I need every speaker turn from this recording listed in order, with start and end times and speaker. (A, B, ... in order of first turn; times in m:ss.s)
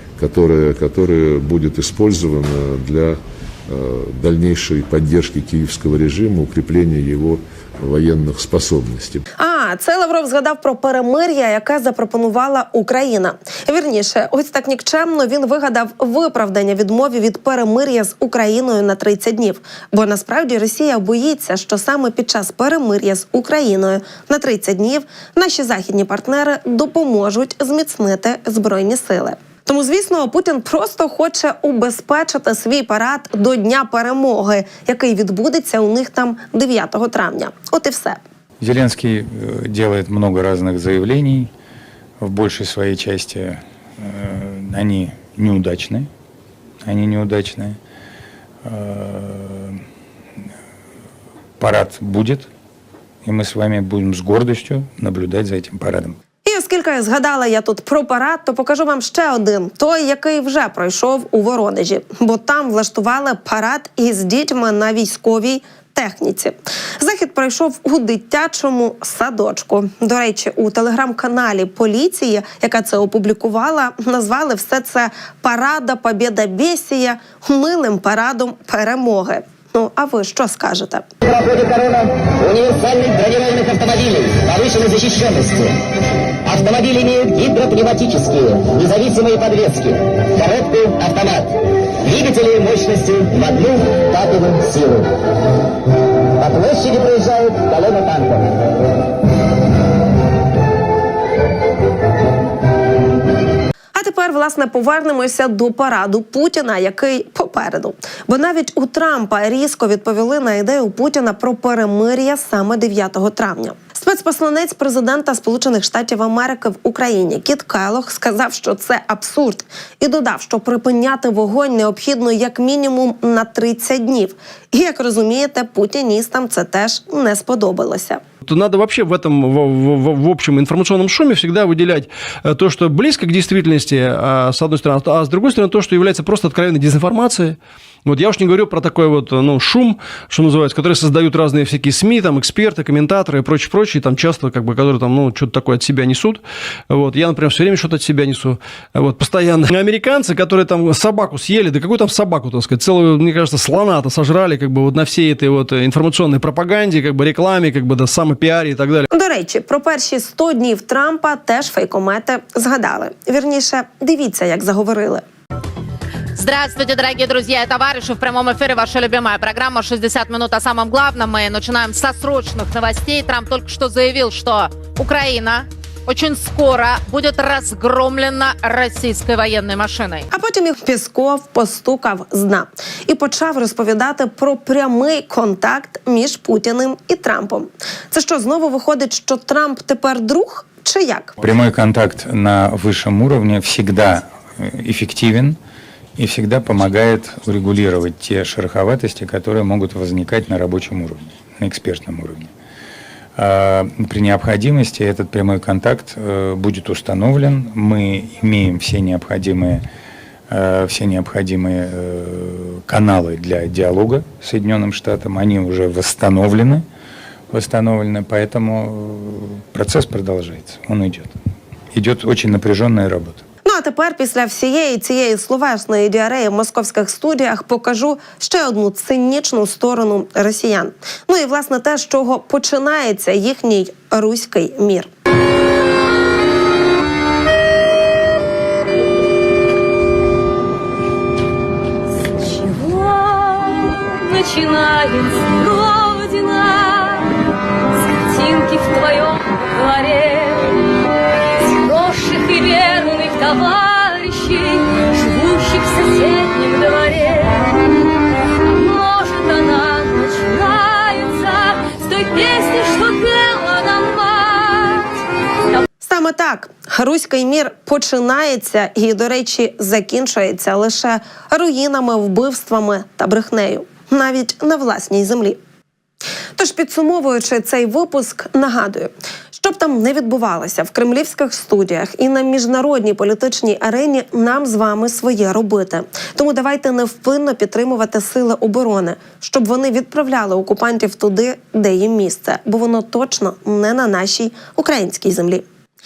0:00.2-0:09.3 A
0:09.4-0:38.2 B
0:38.6-0:41.5 C
0:42.2-0:46.1 C
0:46.8-0:47.8 C
0:48.6-0:49.8 C
0:51.6-0:52.5 C
0:53.2-0:56.2 C
0:56.4-1:21.1 B
1:21.3-1:25.7 D
1:26.5-1:35.1 D
1:36.4-1:38.4 D
1:44.0-2:08.2 B
2:08.4-2:39.1 E
2:39.1-2:45.2 B
2:46.4-3:00.3 F
3:00.3-3:11.4 B
3:11.4-3:15.6 C
3:16.2-3:22.5 C
3:23.4-3:29.8 C
3:30.5-3:36.8 C
3:37.5-3:41.3 C
3:41.9-3:43.4 C
3:43.6-3:55.1 B
4:02.4-4:07.4 G
4:08.1-4:10.9 G
4:11.7-4:17.8 G
4:18.7-4:25.2 G
4:26.0-4:35.6 B
4:36.6-4:55.6 B